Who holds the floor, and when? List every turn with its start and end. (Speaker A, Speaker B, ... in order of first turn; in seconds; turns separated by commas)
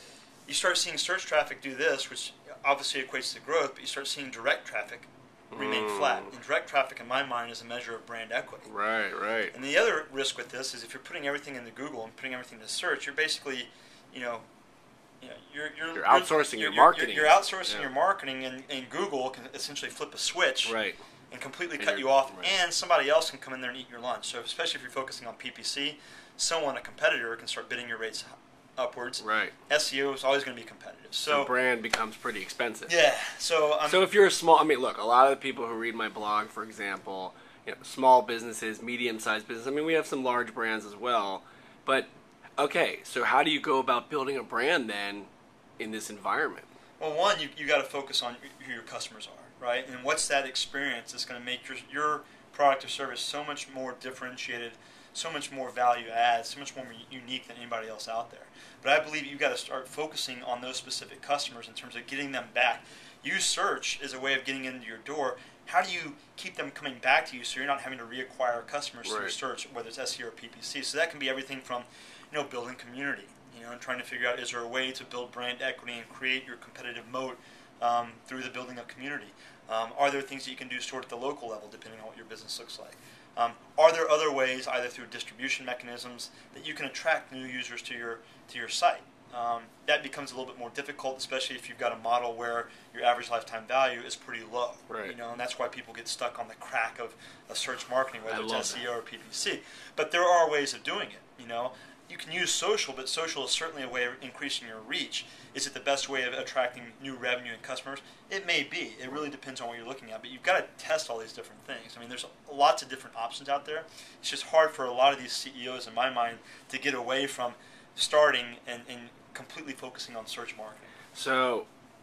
Speaker A: 0.5-8.7, Speaker B: 5.5-6.3, Speaker B: 8.7-9.5, Speaker A: 9.5-14.4, Speaker A: 15.2-20.8, Speaker B: 15.9-17.9, Speaker B: 20.6-21.0, Speaker A: 21.3-31.5, Speaker B: 21.8-22.5, Speaker B: 29.2-29.6, Speaker B: 31.3-32.9, Speaker A: 32.9-34.0, Speaker B: 33.9-45.3, Speaker B: 45.8-46.7, Speaker A: 47.0-120.9, Speaker B: 69.0-69.3, Speaker B: 94.9-95.2, Speaker B: 98.3-98.9, Speaker B: 121.1-121.7